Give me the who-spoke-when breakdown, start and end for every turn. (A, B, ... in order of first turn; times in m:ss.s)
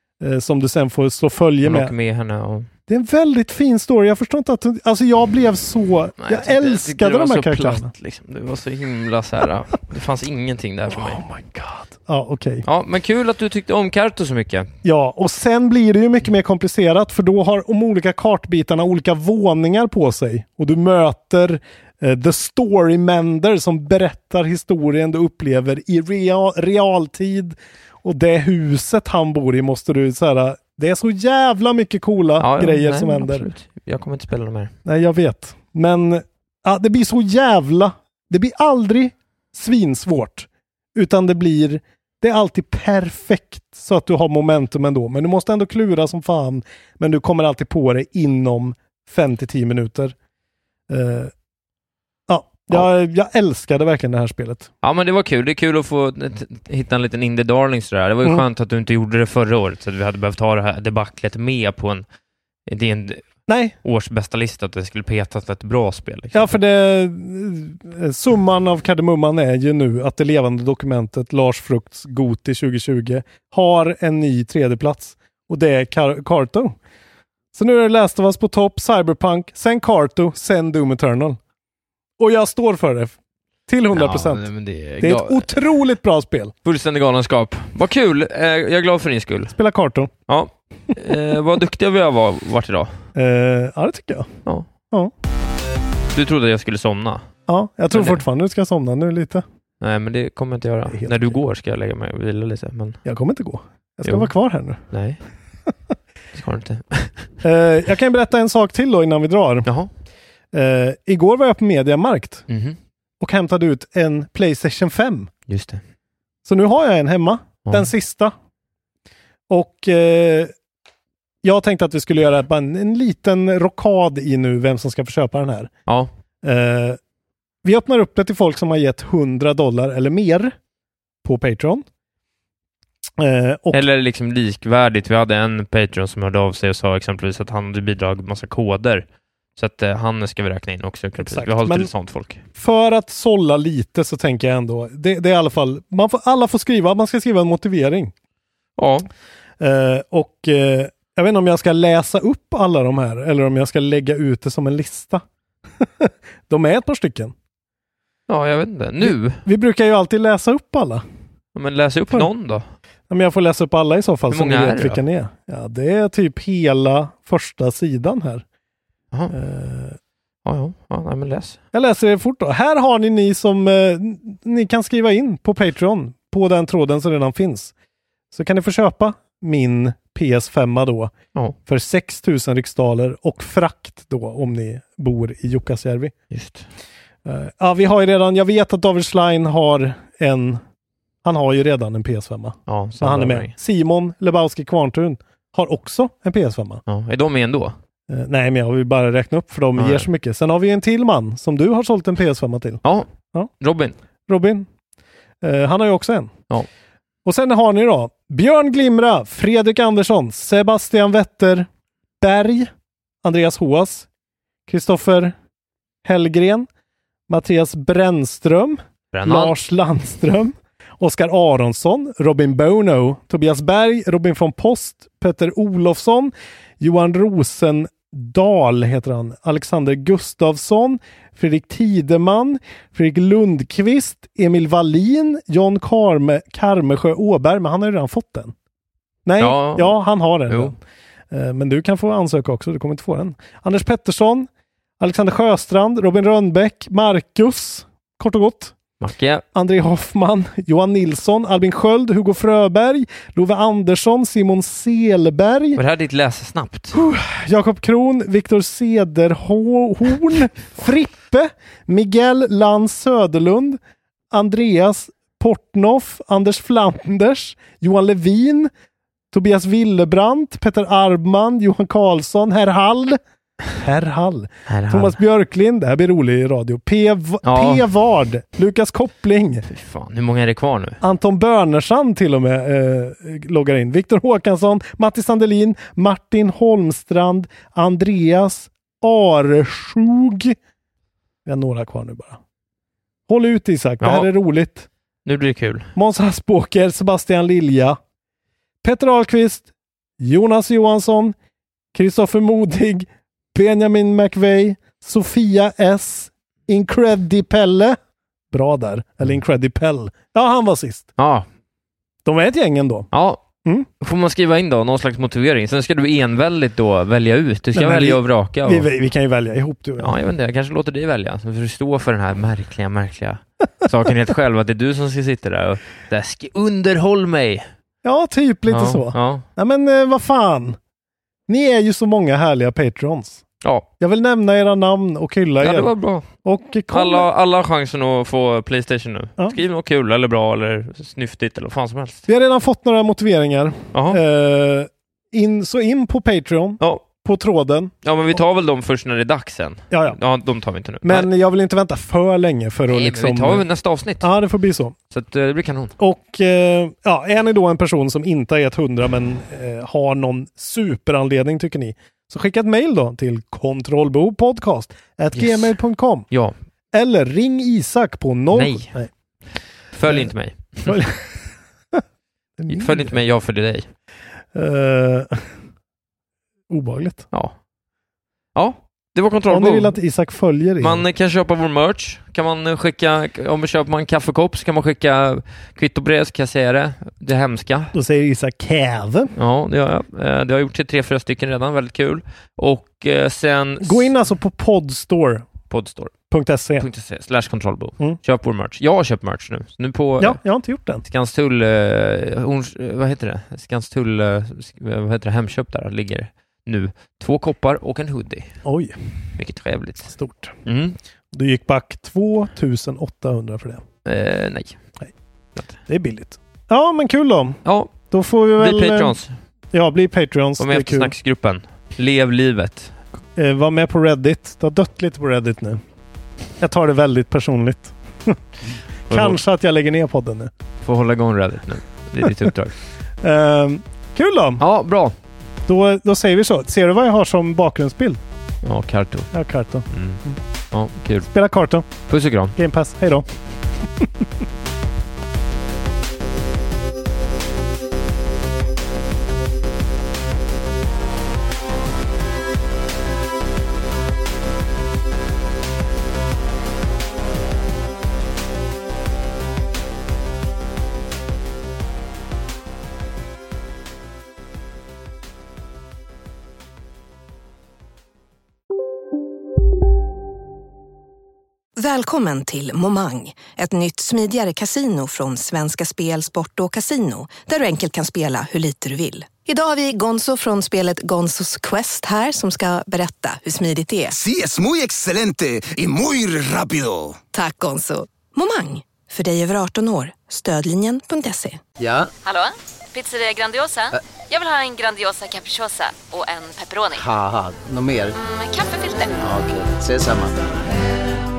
0:00.2-0:01.9 A
0:01.6-0:02.7 B
0:02.9-0:07.9 A
0:06.2-0:11.2 B
0:10.9-0:12.7 A
0:12.6-0:14.7 B
0:14.8-0:33.5 A
0:32.4-0:34.7 B
0:34.8-0:50.2 A
0:50.9-0:51.3 A
0:52.3-0:54.7 A
0:54.8-1:02.0 B
1:02.7-1:03.3 B
1:03.5-1:03.8 A
1:03.8-1:06.6 B
1:06.3-1:16.8 A
1:17.5-1:21.4 A
1:22.2-1:23.2 A
1:23.7-1:24.5 A
1:23.9-1:25.6 B
1:25.0-1:26.6 A
1:26.6-1:29.6 B
1:29.5-1:30.1 A
1:30.3-1:32.9 B
1:33.2-1:34.3 A
1:36.1-1:37.3 B
1:37.5-1:39.4 A
1:37.9-1:38.2 B
1:39.8-1:43.0 B
1:40.9-1:41.4 A
1:43.0-1:44.8 A
1:44.0-1:44.3 B
1:44.9-1:45.2 B
1:46.3-1:47.3 B
1:47.4-1:49.7 A
1:50.5-1:52.4 A
1:52.5-1:52.8 B
1:53.2-1:55.3 A
1:55.5-1:55.8 B
1:56.4-1:58.3 A
1:59.5-2:00.5 A
2:01.4-2:05.7 A
2:06.4-2:07.0 A
2:07.6-2:10.6 A
2:11.2-2:11.8 A
2:13.2-2:13.8 A
2:13.7-2:19.0 B
2:19.6-2:22.4 B
2:21.2-2:21.9 A
2:22.6-2:28.1 A
2:28.8-2:29.1 B
2:29.6-2:35.2 A
2:35.8-2:37.3 A
2:38.3-2:39.4 B
2:39.0-2:41.0 A
2:41.6-2:42.6 B
2:43.1-2:48.4 A
2:44.3-2:45.0 B
2:49.3-2:50.0 A
2:50.4-2:51.6 B
2:51.7-2:57.7 A
2:58.3-3:01.1 A
3:01.7-3:06.1 A
3:06.3-3:06.7 B
3:07.2-3:10.6 A
3:11.2-3:16.8 A
3:12.7-3:13.5 B
3:16.9-3:17.8 B
3:18.1-3:22.8 A
3:19.8-3:20.1 B
3:23.6-3:24.0 B
3:24.3-3:24.7 A
3:25.4-3:26.4 A
3:27.2-3:31.7 A
3:32.2-3:32.7 A
3:33.2-3:34.1 A
3:34.7-3:35.3 A
3:36.0-3:36.7 A
3:37.3-3:58.5 A
3:39.1-3:39.5 B
3:59.2-4:00.8 A
3:59.4-4:00.0 B
4:00.5-4:00.7 B
4:01.3-4:04.5 A
4:05.0-4:08.8 A
4:09.0-4:09.4 B
4:09.5-4:15.8 A
4:15.8-4:16.9 B
4:16.9-4:23.8 A
4:24.3-4:28.7 A
4:29.3-4:33.2 A
4:33.8-4:39.6 A
4:34.7-4:35.2 B
4:37.4-4:37.8 B
4:39.7-4:41.0 B
4:41.0-4:50.6 A
4:51.5-4:52.4 A
4:53.3-4:54.9 A
4:54.0-4:54.3 B
4:55.3-4:55.9 B
4:56.0-4:58.0 A
4:58.8-4:59.7 A
5:00.2-5:01.4 A
5:01.9-5:08.0 A
5:08.5-5:11.1 A
5:11.2-5:11.4 B
5:12.2-5:13.1 A
5:13.1-5:13.4 B
5:14.0-5:18.9 B
5:17.7-5:20.2 A
5:20.0-5:27.7 B
5:28.0-5:30.8 A
5:28.7-5:29.4 B
5:31.5-5:33.4 A
5:34.0-5:35.9 A
5:35.6-5:36.3 B
5:36.4-5:37.3 A
5:36.9-5:42.3 B
5:42.3-5:47.9 A
5:43.9-5:44.2 B
5:48.0-5:51.3 B
5:49.9-5:50.2 A
5:51.0-5:53.6 A
5:52.9-5:54.3 B
5:54.2-5:55.0 A
5:55.1-5:55.9 B
5:56.0-6:06.3 A
6:05.3-6:05.7 B
6:06.9-6:09.1 A
6:08.5-6:08.9 B
6:09.9-6:11.0 B
6:10.1-6:10.3 A
6:10.9-6:12.0 A
6:12.6-6:13.1 A
6:12.7-6:13.9 B
6:14.5-6:15.5 A
6:16.7-6:17.3 A
6:18.6-6:20.0 B
6:19.5-6:21.0 A
6:20.8-6:27.9 B
6:27.9-6:29.3 A
6:29.4-6:34.1 B
6:33.8-6:35.5 A
6:35.7-6:36.1 B
6:36.3-6:36.9 A
6:36.8-6:40.4 B
6:40.2-6:41.0 A
6:41.1-6:48.5 B
6:48.6-6:49.0 A
6:49.4-6:50.1 B
6:50.1-6:50.6 A
6:50.7-6:51.0 B
6:51.3-6:53.8 A
6:54.1-6:54.8 B
6:55.9-6:59.2 A
6:57.7-6:58.0 B
6:58.6-6:59.3 B
6:59.7-7:01.1 A
7:00.6-7:02.9 B
7:03.4-7:05.8 A
7:06.6-7:08.4 A
7:09.1-7:09.4 B
7:09.1-7:10.5 A
7:10.8-7:12.8 B
7:13.2-7:14.6 A
7:14.6-7:15.1 B
7:15.7-7:18.2 A
7:18.6-7:19.3 B
7:19.3-7:20.4 A
7:19.9-7:20.2 B
7:20.7-7:21.3 B
7:21.2-7:21.8 A
7:22.1-7:22.5 B
7:22.6-7:23.3 A
7:51.8-8:04.2 C
8:04.1-8:07.2 D
8:07.3-8:11.6 C
8:11.8-8:12.1 E
8:12.2-8:17.0 F
8:17.0-8:18.2 E
8:18.2-8:19.2 F
8:19.2-8:20.3 E